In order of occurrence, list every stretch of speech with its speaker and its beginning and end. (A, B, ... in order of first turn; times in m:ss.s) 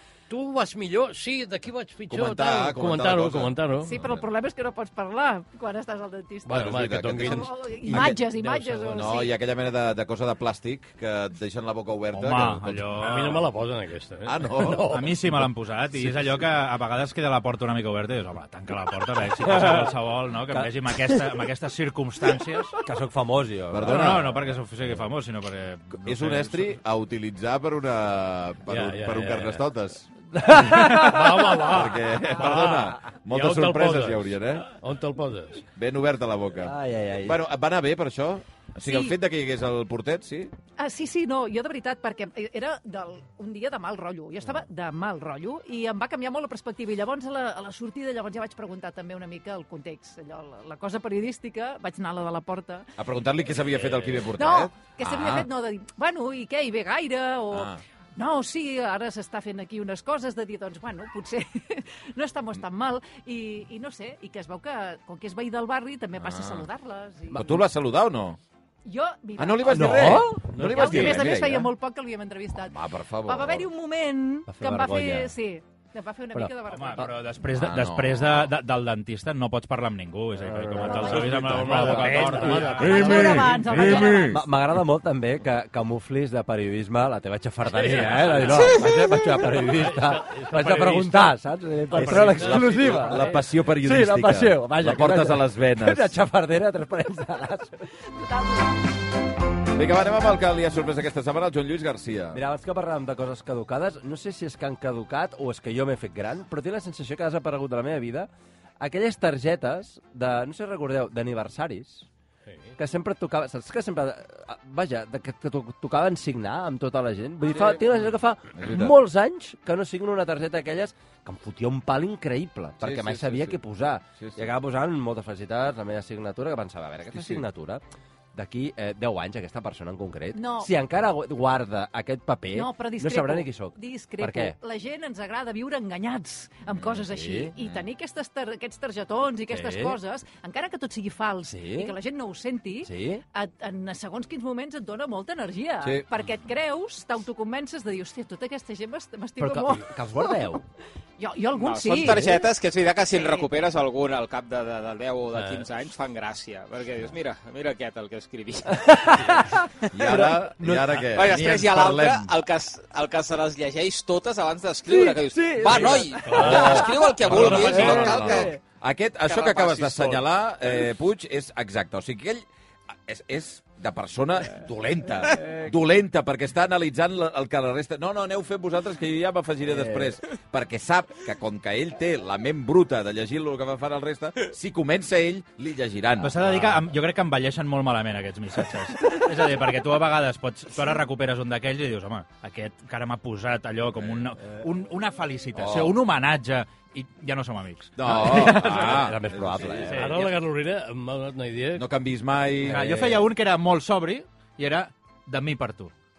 0:00.3-0:03.9 A
0:02.1-0:04.2 B
0:03.8-0:09.3 C
0:06.5-0:09.0 A
0:06.5-0:08.3 B
0:08.8-0:13.0 B
0:12.1-0:13.4 D
0:13.0-0:15.5 A
0:14.3-0:15.1 B
0:14.9-0:22.8 D
0:19.4-0:19.9 E
0:20.5-0:21.3 E
0:22.8-0:24.3 E
0:23.7-0:24.5 B
0:23.8-0:26.7 D
0:26.0-0:30.1 B
0:28.7-0:29.7 A
0:30.3-0:31.8 E
0:30.7-0:35.6 A
0:31.6-0:34.7 B
0:35.8-0:40.5 B
0:36.6-0:37.4 E
0:38.8-0:39.2 C
0:40.8-0:52.9 C
0:53.0-0:55.5 B
0:53.7-0:54.2 A
0:54.4-1:07.5 C
0:57.5-0:57.8 B
1:06.2-1:06.7 B
1:07.3-1:08.4 B
1:08.9-1:17.2 C
1:09.4-1:11.7 B
1:09.7-1:11.6 E
1:12.6-1:13.7 B
1:14.5-1:15.3 E
1:16.7-1:23.3 D
1:17.5-1:18.5 B
1:20.4-1:37.8 E
1:20.8-1:21.2 C
1:21.0-1:23.4 A
1:22.1-1:24.4 C
1:22.8-1:24.4 B
1:27.7-1:31.4 A
1:31.9-1:33.4 A
1:31.9-1:36.1 B
1:38.1-1:38.7 C
1:39.7-1:42.4 B
1:42.3-1:52.1 E
1:52.5-1:52.7 A
1:52.8-2:07.8 E
1:57.5-1:58.0 B
1:58.5-1:59.0 B
2:02.8-2:03.6 B
2:04.2-2:04.5 B
2:07.1-2:07.4 B
2:08.3-2:14.6 E
2:10.3-2:10.7 C
2:12.5-2:30.4 C
2:17.1-2:17.5 E
2:17.6-2:17.8 B
2:19.5-2:20.0 E
2:21.5-2:22.0 E
2:22.8-2:23.2 E
2:29.4-2:30.6 E
2:31.2-2:32.4 C
2:31.5-2:39.3 F
2:32.0-2:32.3 E
2:33.2-2:33.5 C
2:35.3-2:35.7 A
2:38.7-2:41.0 E
2:39.9-2:42.3 B
2:41.1-2:48.6 F
2:44.9-2:48.6 E
2:45.6-2:52.4 B
2:46.2-2:47.9 A
2:49.2-2:50.3 F
2:53.1-3:06.8 B
2:55.3-2:55.7 E
2:59.6-3:00.2 E
3:06.2-3:18.9 D
3:14.0-3:14.2 B
3:15.6-3:16.0 B
3:18.0-3:20.1 B
3:18.0-3:20.1 E
3:19.9-3:20.3 D
3:19.9-3:21.8 A
3:21.8-3:23.1 B
3:22.6-3:23.2 E
3:22.7-3:25.9 D